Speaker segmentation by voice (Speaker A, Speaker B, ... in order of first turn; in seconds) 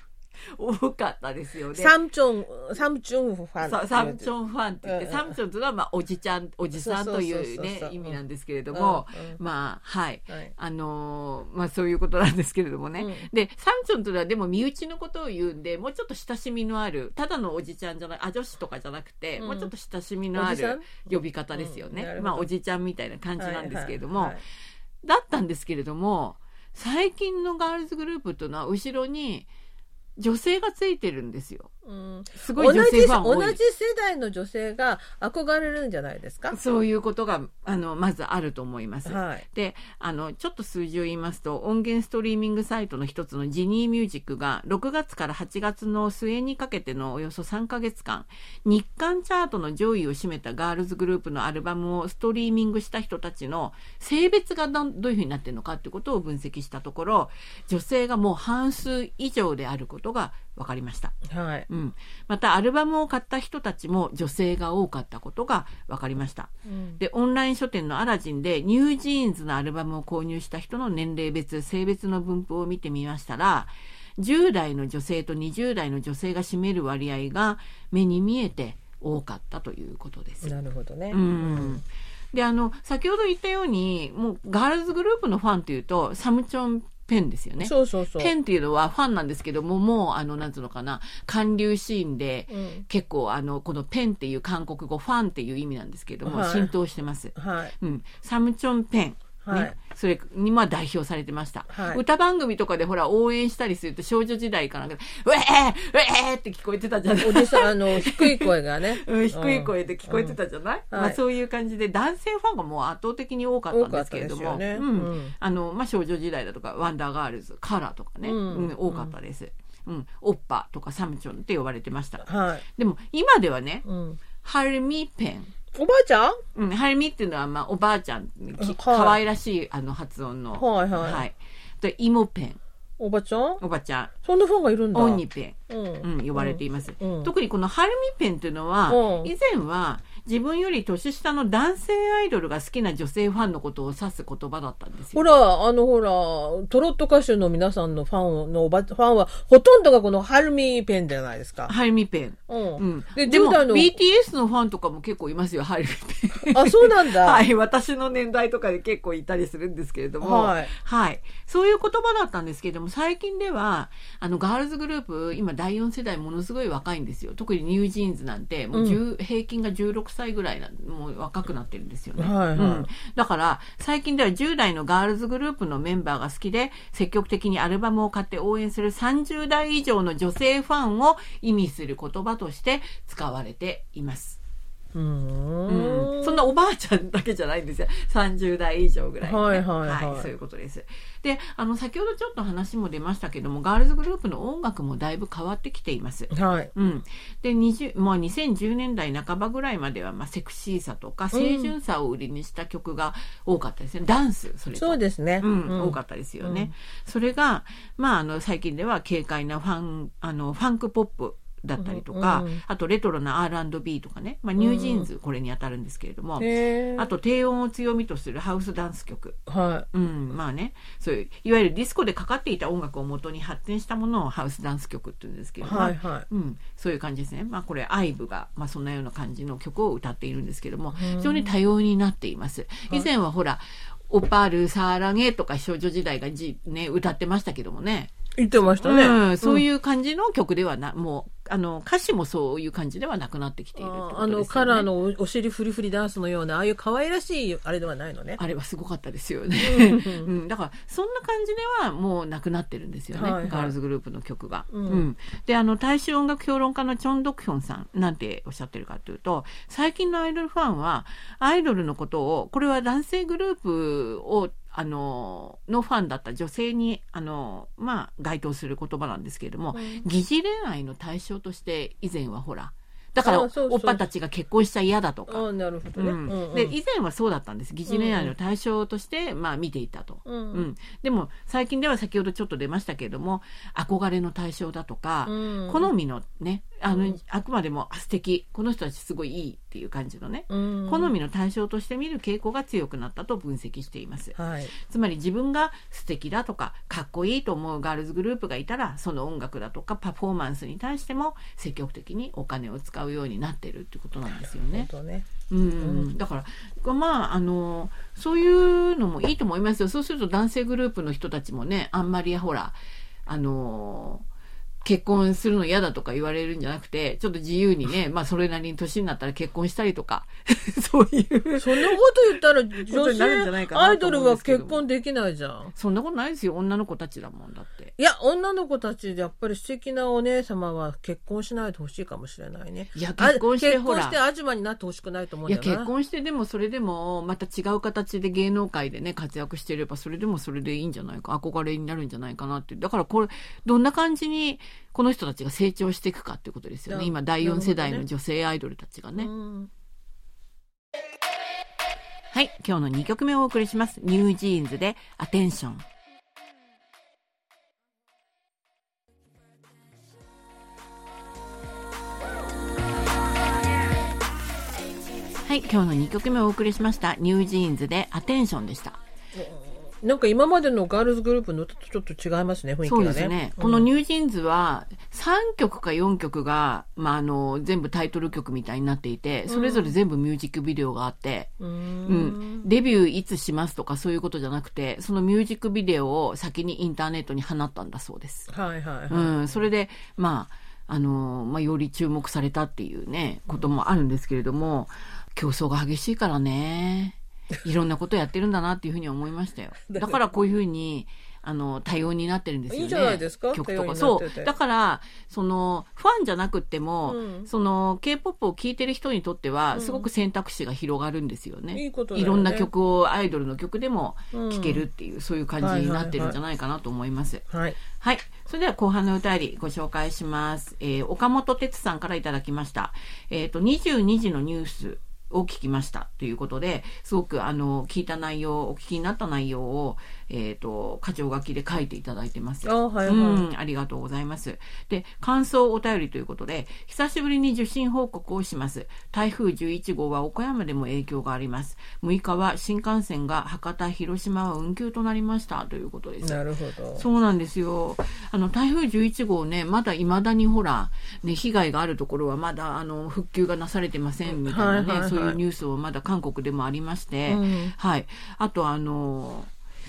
Speaker A: 0.5-1.9, 3.6-24.4, 25.0-29.5, 30.2-31.7, 32.4-33.6, 36.5-61.2, 61.7-80.5, 81.1-123.8, 124.4-125.5, 126.5-132.6, 133.6-134.1, 134.9-145.2, 151.7-184.4, 185.7-219.4, 219.9-238.1, 238.8-244.9, 248.4-275.4, 276.0-304.9, 305.5-314.2, 314.8-322.0, 322.7-324.8, 325.8-327.9, 332.9-334.2, 335.5-349.3, 352.3-355.9, 365.4-369.0, 372.8-381.5, 382.1-388.5, 389.1-446.4, 447.0-459.5
Speaker B: 1.8-4.3, 4.8-5.4, 6.7-8.2, 8.7-9.4, 13.0-13.3, 19.4-19.7, 20.4-21.0, 21.5-22.5, 23.4-24.4, 31.9-36.6, 39.0-39.5, 61.3-61.7, 66.7-67.0, 80.4-81.8, 87.6-88.3, 92.5-92.8, 96.2-96.7, 97.3-97.7, 99.4-99.8, 101.7-102.0, 107.2-110.4, 110.9-111.2, 113.7-115.3, 118.2-119.1, 122.2-122.7, 123.8-124.2, 125.7-126.4, 128.6-129.2, 130.6-131.2, 133.0-133.6, 134.2-137.3, 138.9-139.3, 145.1-151.7, 152.5-153.9, 156.3-157.4, 160.2-160.7, 168.7-169.0, 172.2-172.9, 184.9-186.4, 189.2-190.3, 196.3-196.7, 201.3-201.7, 204.7-206.7, 211.8-212.6, 214.6-215.1, 216.4-217.1, 219.5-219.9, 225.6-226.3, 230.9-231.5, 238.4-239.6, 243.8-248.4, 249.6-250.3, 253.1-253.7, 254.7-255.1, 269.7-270.1, 273.2-274.0, 275.3-276.8, 277.9-278.3, 280.2-280.7, 285.3-285.9, 286.9-287.1, 290.5-291.1, 294.4-294.7, 304.3-305.3, 305.8-306.1, 321.6-325.7, 328.0-335.9, 346.9-348.1, 349.2-349.7, 369.4-373.9, 379.5-379.9, 381.6-382.7, 388.5-389.6, 399.9-400.2, 402.7-404.5, 407.1-407.5, 409.7-410.1, 411.7-412.7, 414.3-414.8, 415.6-416.4, 417.5-417.8, 432.6-433.5, 446.2-447.1, 454.3-455.4, 457.3-457.7